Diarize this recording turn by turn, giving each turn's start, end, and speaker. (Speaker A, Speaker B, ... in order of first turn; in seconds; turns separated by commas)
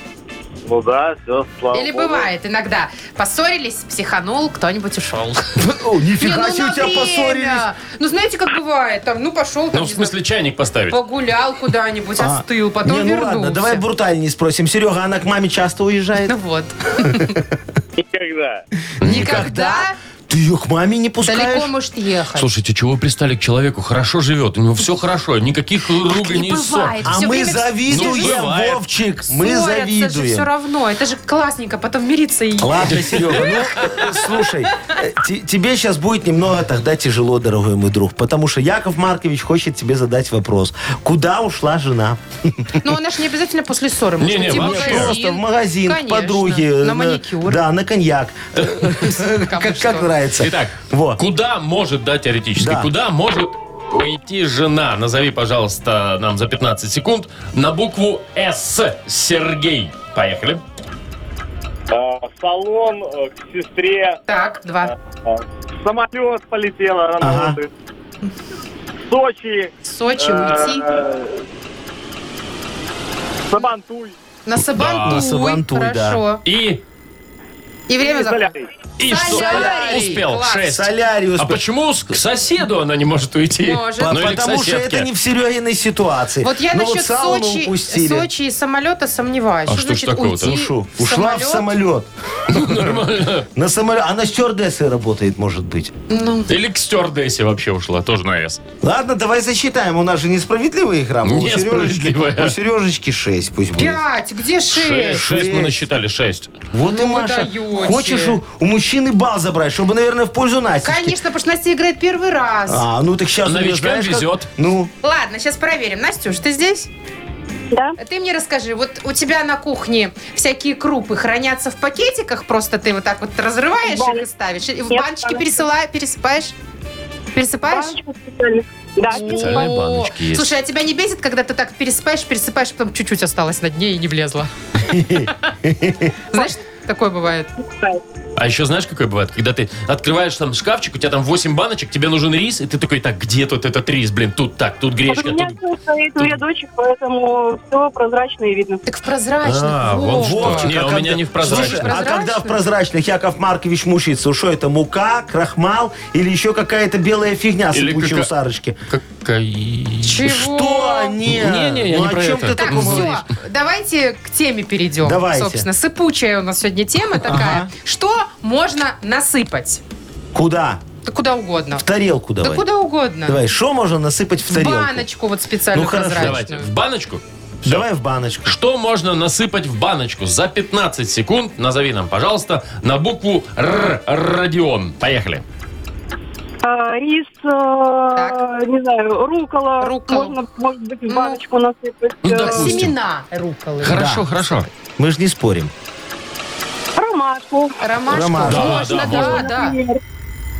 Speaker A: 0.7-2.3, Speaker B: 1.7-5.6, Speaker C: 5.6-7.7, Speaker B: 6.2-10.1, Speaker D: 9.7-11.0, Speaker B: 10.9-13.8, Speaker C: 12.2-16.3, Speaker B: 16.3-17.4, Speaker C: 17.1-17.4, Speaker A: 18.0-18.6, Speaker C: 19.0-21.7, Speaker B: 19.0-19.9, Speaker D: 19.0-19.5, Speaker B: 21.2-22.5, Speaker D: 22.4-27.0, Speaker B: 26.1-28.4, Speaker C: 27.0-30.5, Speaker D: 27.9-28.8, Speaker B: 29.3-33.9, Speaker C: 32.6-42.8, Speaker D: 33.0-33.9, Speaker B: 42.8-47.6, Speaker D: 44.2-45.1, Speaker C: 44.4-51.2, Speaker D: 48.6-48.8, Speaker B: 49.2-50.1, Speaker D: 50.4-60.6, Speaker C: 52.6-52.9, Speaker A: 61.9-64.2, Speaker B: 64.3-64.9, Speaker A: 65.3-67.7, Speaker C: 67.2-67.6, Speaker A: 69.1-71.3, Speaker B: 69.8-70.8, Speaker A: 73.5-74.2, Speaker B: 74.5-76.4, Speaker D: 74.7-75.2, Speaker C: 75.0-76.2, Speaker D: 76.4-76.8, Speaker B: 77.9-78.5, Speaker A: 78.0-78.7, Speaker D: 79.0-85.1, Speaker B: 79.0-80.6, Speaker C: 79.2-81.6, Speaker B: 83.6-84.1, Speaker C: 84.0-88.3, Speaker B: 86.4-91.7, Speaker D: 89.7-90.5, Speaker C: 90.4-93.0, Speaker D: 92.5-93.5, Speaker C: 93.5-95.9, Speaker B: 96.1-96.5, Speaker D: 96.5-98.6, Speaker C: 98.8-104.0, Speaker D: 101.2-102.5, Speaker B: 103.8-105.2, Speaker D: 104.7-106.5, Speaker C: 105.1-105.8, Speaker C: 106.7-111.2, Speaker B: 106.8-108.4, Speaker B: 110.8-112.8, Speaker C: 112.7-114.9, Speaker D: 113.4-114.5, Speaker B: 115.0-116.9, Speaker E: 117.7-118.0, Speaker B: 118.0-126.5, Speaker E: 123.8-124.3, Speaker E: 124.9-125.7, Speaker B: 127.3-128.0, Speaker E: 127.6-129.8, Speaker B: 129.1-135.3, Speaker D: 129.2-130.5, Speaker C: 134.9-136.1, Speaker B: 136.3-137.5, Speaker E: 137.6-138.0, Speaker D: 138.4-145.6, Speaker E: 145.1-148.8, Speaker B: 148.8-150.7, Speaker D: 149.4-152.0, Speaker C: 150.2-158.8, Speaker B: 151.4-152.6, Speaker D: 157.7-158.3, Speaker D: 158.9-160.3, Speaker B: 160.0-161.2, Speaker C: 160.2-163.2, Speaker D: 161.2-163.2, Speaker B: 162.5-169.8, Speaker C: 165.0-165.7, Speaker C: 167.2-167.7, Speaker C: 170.3-170.8, Speaker B: 171.0-171.8, Speaker C: 171.8-172.7, Speaker B: 172.4-173.4, Speaker C: 173.2-175.1, Speaker B: 174.5-176.6, Speaker C: 175.7-176.4, Speaker D: 176.2-177.9, Speaker C: 177.6-178.6, Speaker D: 178.4-185.4, Speaker E: 186.6-192.7, Speaker B: 189.8-190.3, Speaker B: 191.1-191.4, Speaker D: 192.2-192.9, Speaker B: 192.3-194.1, Speaker D: 193.8-194.7, Speaker C: 193.9-194.3, Speaker C: 195.0-195.7, Speaker E: 196.9-197.8, Speaker B: 197.8-199.8, Speaker C: 198.1-198.9, Speaker D: 198.4-199.5, Speaker E: 198.8-200.0